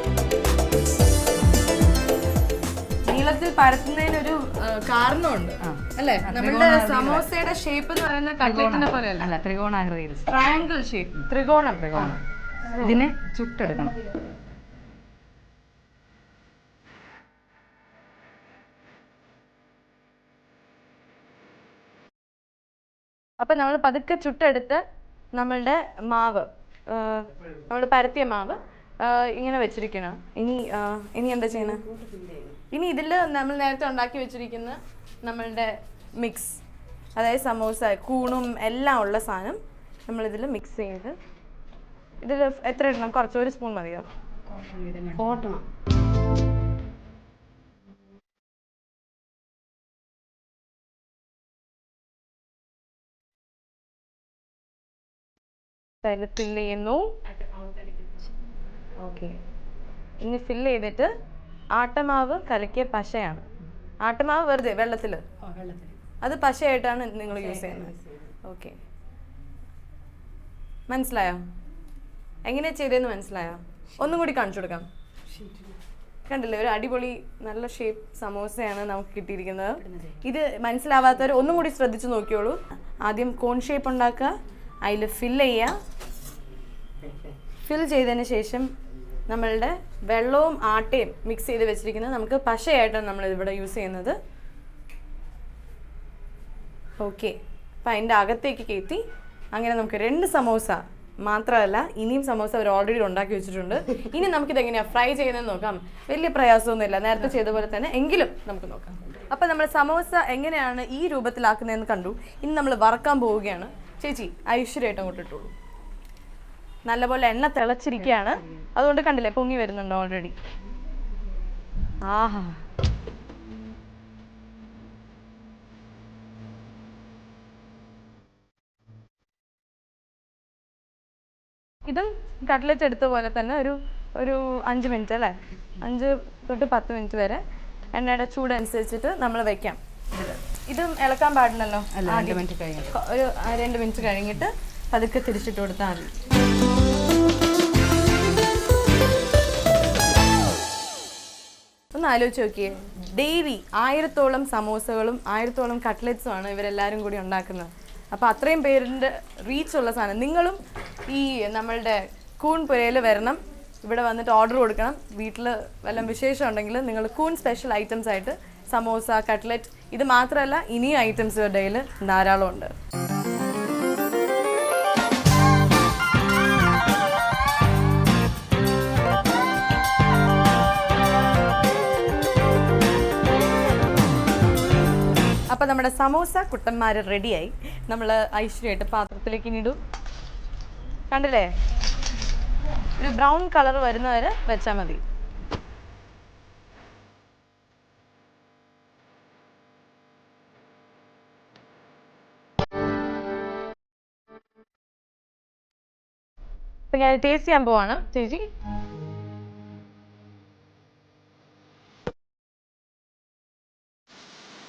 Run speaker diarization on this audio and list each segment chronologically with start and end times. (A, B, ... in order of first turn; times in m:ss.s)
0:03.0-0:09.3 A
0:05.6-0:07.3 B
0:08.4-0:10.4 B
0:10.2-0:12.2 A
0:11.9-0:12.2 B
0:12.7-0:13.9 B
0:23.4-0:24.8 A
0:25.4-0:31.8 A
0:32.7-0:36.6 A
0:37.2-0:41.1 A
0:42.2-0:44.1 A
0:56.0-0:57.2 A
0:59.0-0:59.4 A
1:00.2-1:01.1 A
1:01.8-1:03.4 A
1:04.0-1:05.2 A
1:05.6-1:05.9 B
1:06.2-1:08.7 A
1:10.9-1:11.4 A
1:12.4-1:14.8 A
1:16.3-1:25.7 A
1:27.6-1:28.7 A
1:29.3-1:34.2 A
1:37.0-1:55.5 A
1:56.8-2:00.3 A
2:02.0-2:02.6 A
2:11.8-2:17.4 A
2:17.9-2:19.8 A
2:20.1-2:20.4 B
2:20.5-2:26.1 A
2:21.9-2:22.9 B
2:31.9-2:52.7 A
3:05.5-3:09.8 A
3:11.1-3:11.5 A
3:13.0-3:15.0 A
3:26.9-3:28.4 A